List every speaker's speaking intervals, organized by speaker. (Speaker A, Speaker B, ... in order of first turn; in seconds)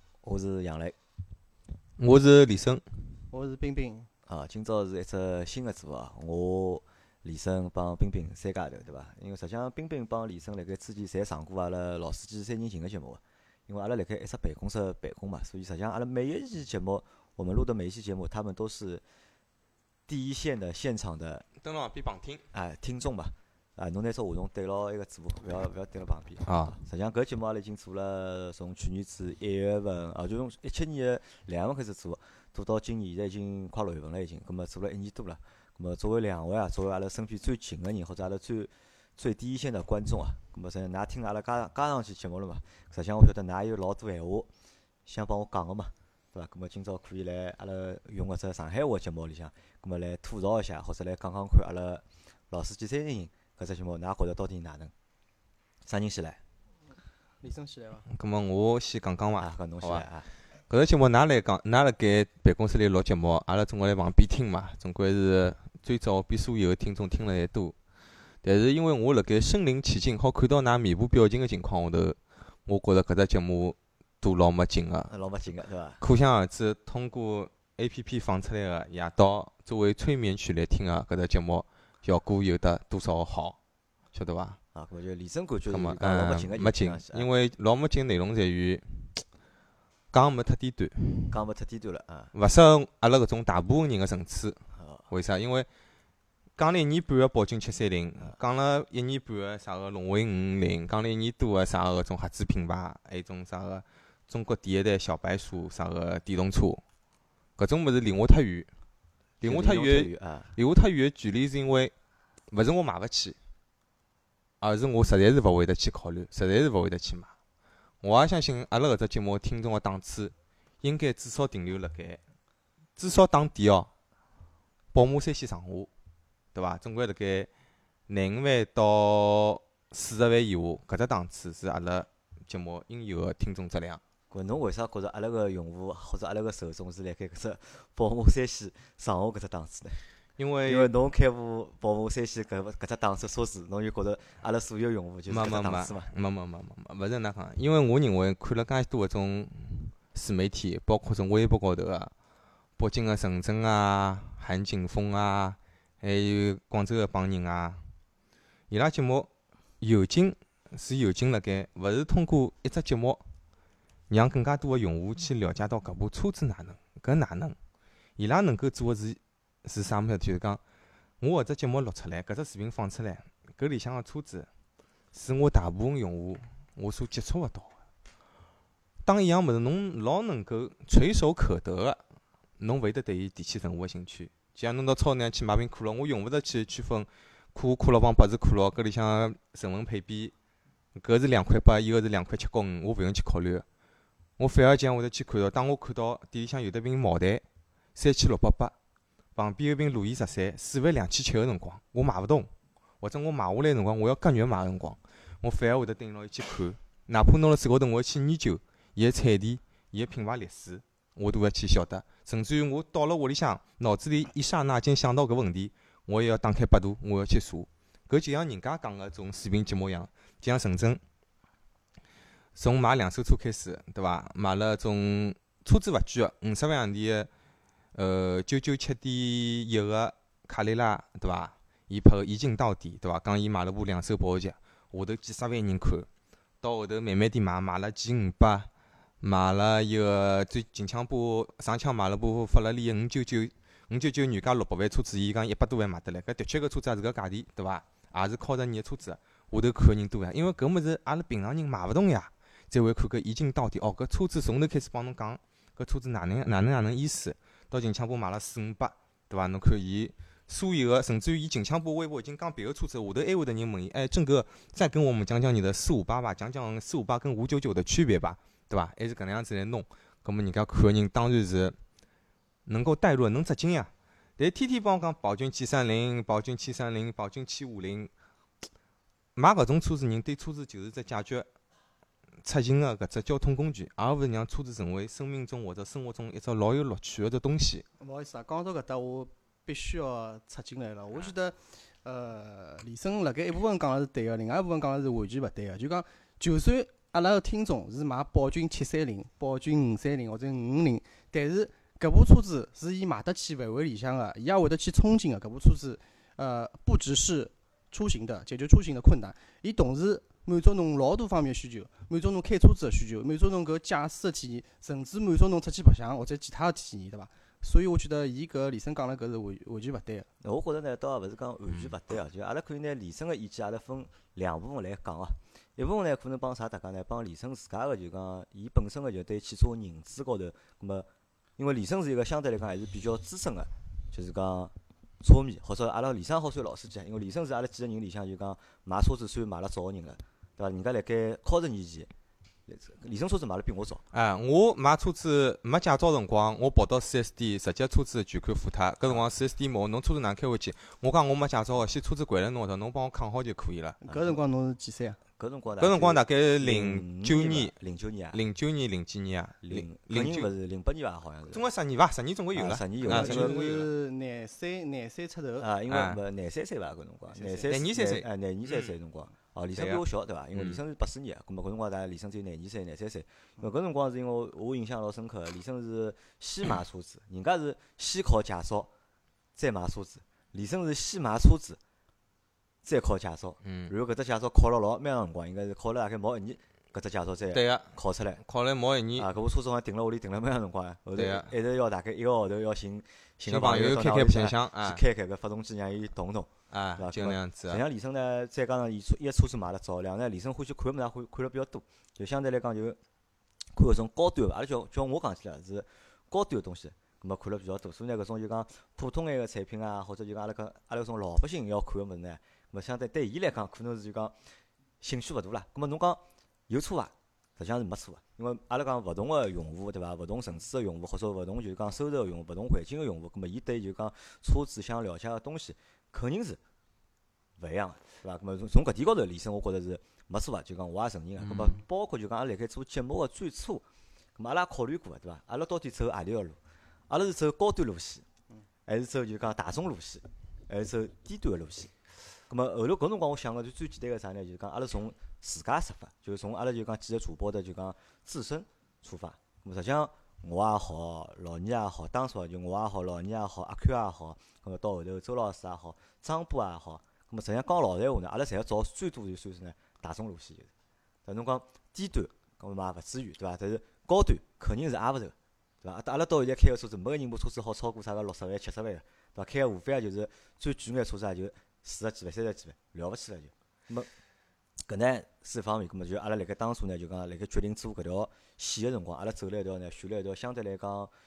Speaker A: 0.2-0.9, 4.3-19.0, 20.1-21.5, 22.5-44.5, 45.0-54.9, 55.9-56.4, 59.4-60.3, 75.1-76.0, 84.7-87.3, 91.3-92.3, 94.7-95.0, 109.4-110.5, 134.3-140.0, 140.7-146.1, 320.4-342.1, 342.7-344.0, 354.0-354.4, 355.4-358.4, 359.6-361.6, 362.5-363.7, 365.6-378.9, 379.6-381.8, 382.8-388.4, 389.2-403.0, 403.7-414.3, 415.0-426.6, 427.6-433.8, 434.4-436.6, 437.1-438.2, 438.9-441.9, 442.5-460.7, 461.2-474.1, 474.9-481.1
Speaker B: 2.0-2.8, 21.6-22.4, 26.4-26.8, 58.1-60.0, 60.7-67.7, 68.4-75.1, 76.0-83.6, 84.1-84.6, 85.7-89.2, 90.1-91.3, 92.3-95.7, 96.5-106.8, 107.6-108.7, 109.4-111.9, 112.5-113.4, 114.6-117.3, 118.0-122.2, 123.0-123.9, 124.9-125.9, 126.5-127.5, 128.1-134.0, 140.4-140.9, 145.3-152.1, 152.8-157.8, 158.7-163.2, 164.1-167.6, 168.2-170.6, 171.2-174.5, 175.1-177.7, 179.0-182.0, 182.6-190.3, 190.9-193.7, 194.4-197.4, 197.9-198.7, 199.3-202.5, 203.0-221.0, 222.5-227.3, 227.9-236.1, 236.6-238.7, 239.2-271.8, 272.6-278.1, 279.4-281.4, 282.4-287.8, 344.1-354.0, 355.8-357.7, 358.3-360.5, 361.5-363.9, 365.9-366.2, 367.7-368.9, 369.7-370.0, 370.5-370.8, 383.6-383.9, 387.5-389.3, 391.1-391.5, 393.4-395.0, 396.7-397.8, 431.4-431.8
Speaker C: 3.3-4.1, 57.4-58.0, 288.0-320.3, 354.0-355.2, 363.0-365.7, 367.3-367.6